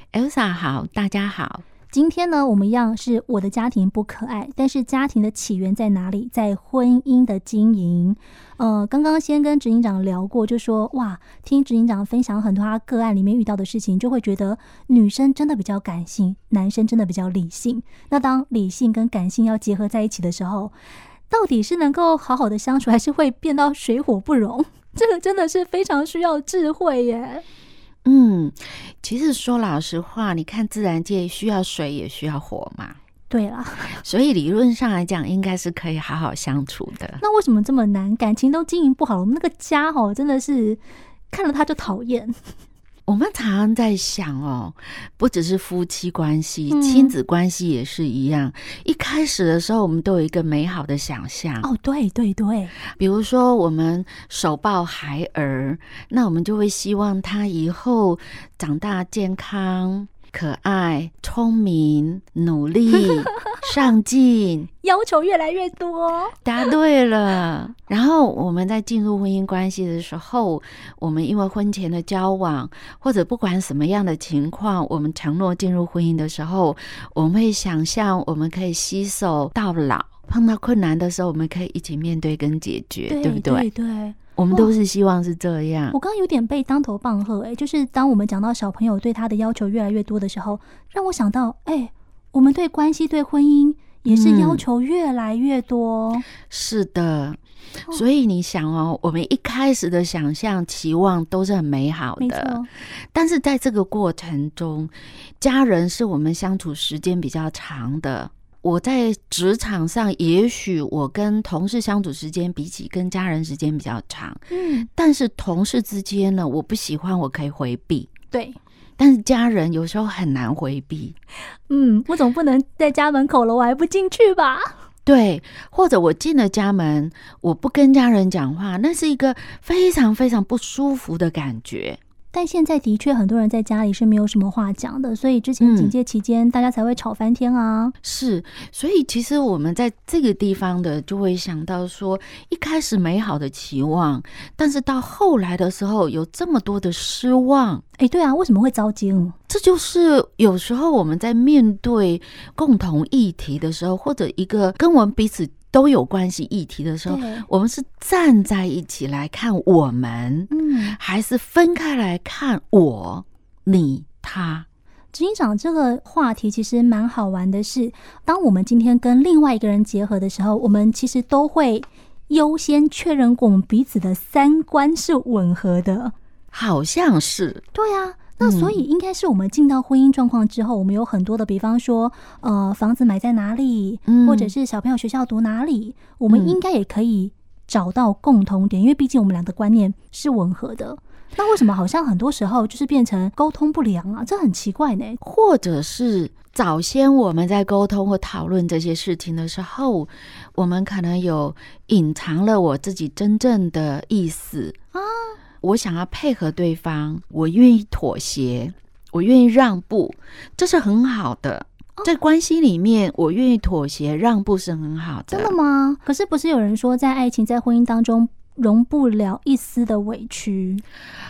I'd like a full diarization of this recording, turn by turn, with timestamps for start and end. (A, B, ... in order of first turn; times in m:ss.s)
0:00.1-0:01.6 A
0:01.9-0:20.7 B
0:21.3-0:27.4 B
0:28.0-0:33.0 A
0:33.3-0:34.0 B
0:34.0-0:37.2 A
0:37.2-0:42.4 B
0:43.1-0:51.7 A
0:46.7-0:47.2 B
0:51.6-0:52.8 B
0:52.9-1:04.7 A
1:04.8-1:06.4 B
1:06.4-1:23.7 A
1:23.1-1:24.7 B
1:24.4-1:26.0 A
1:25.9-1:36.3 B
1:34.1-1:34.6 A
1:36.5-1:54.4 A
1:42.2-1:42.7 B
1:54.5-1:54.9 B
1:54.9-1:58.1 A
1:58.3-1:58.6 B
1:59.0-2:01.2 A
2:01.7-2:04.7 B
2:05.0-2:12.0 A
2:12.3-2:17.9 B
2:15.6-2:16.0 A
2:18.0-2:27.8 A
2:28.0-2:29.4 B
2:29.5-2:44.7 A
2:37.1-2:37.5 B
2:40.5-2:41.0 B
2:45.1-2:56.2 B
2:56.5-2:57.6 A
2:57.8-3:15.2 B
2:58.4-2:58.8 A
3:04.1-3:04.5 A
3:06.3-3:06.6 A
3:15.2-3:24.8 A
3:24.9-3:25.4 B
3:25.6-3:35.6 A
3:35.3-3:40.8 B